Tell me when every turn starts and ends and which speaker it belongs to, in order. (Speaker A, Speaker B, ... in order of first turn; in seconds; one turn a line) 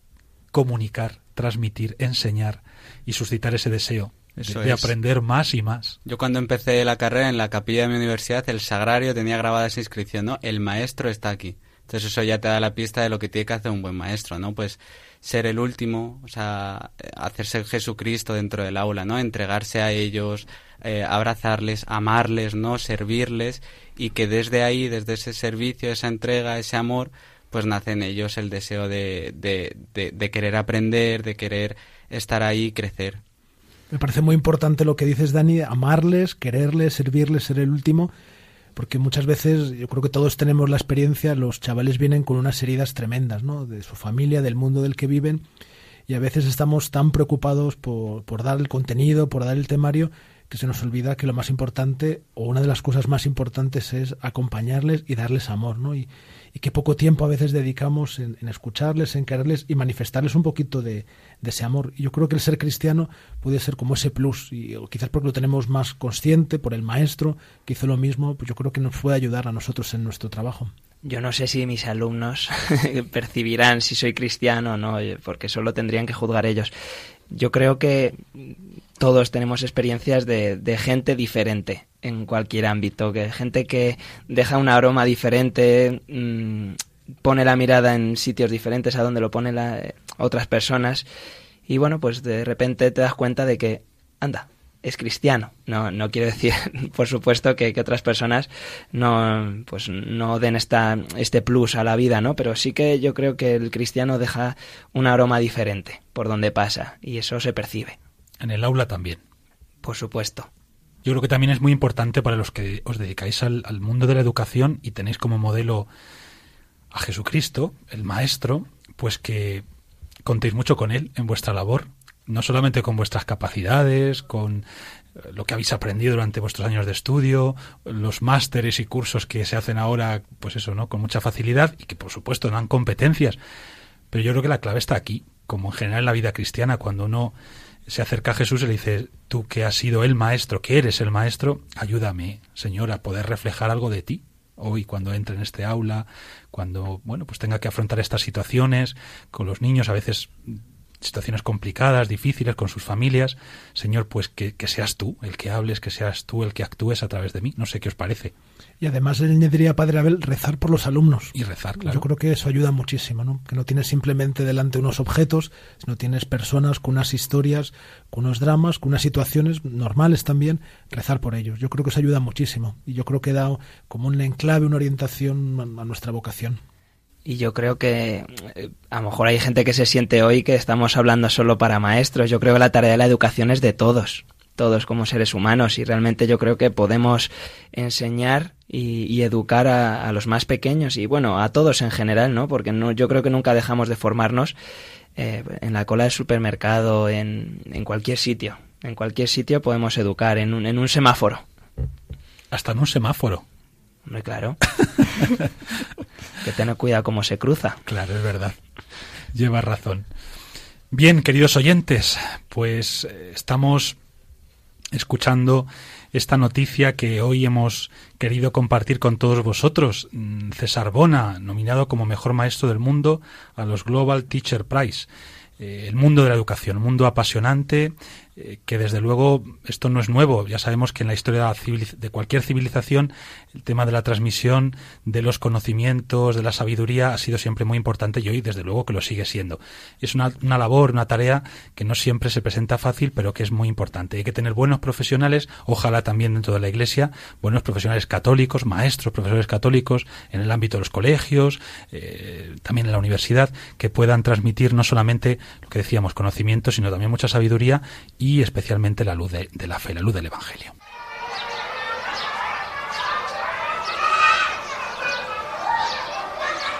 Speaker A: 0.5-6.0
Speaker B: 4.4-4.9
Speaker B: 6.0-33.2
Speaker C: 33.9-38.1
Speaker C: 38.8-45.4
Speaker C: 46.1-70.7
Speaker D: 71.0-76.7
Speaker D: 77.3-91.0
Speaker D: 91.7-108.0
Speaker A: 108.4-109.2
Speaker D: 109.8-110.5
Speaker A: 111.0-115.9
Speaker A: 116.9-119.6
Speaker A: 120.2-124.6
Speaker A: 125.2-133.4
Speaker A: 134.1-137.3
Speaker A: 137.9-158.3
Speaker C: 158.8-176.6
Speaker A: 161.3-162.0
Speaker D: 177.2-194.5
Speaker D: 195.2-201.4
Speaker A: 202.5-203.4
Speaker D: 204.1-204.6
Speaker A: 204.8-205.4
Speaker D: 206.4-207.8
Speaker A: 207.8-208.6
Speaker A: 209.3-210.1
Speaker A: 210.9-213.9
Speaker A: 214.9-225.1
Speaker A: 225.6-260.7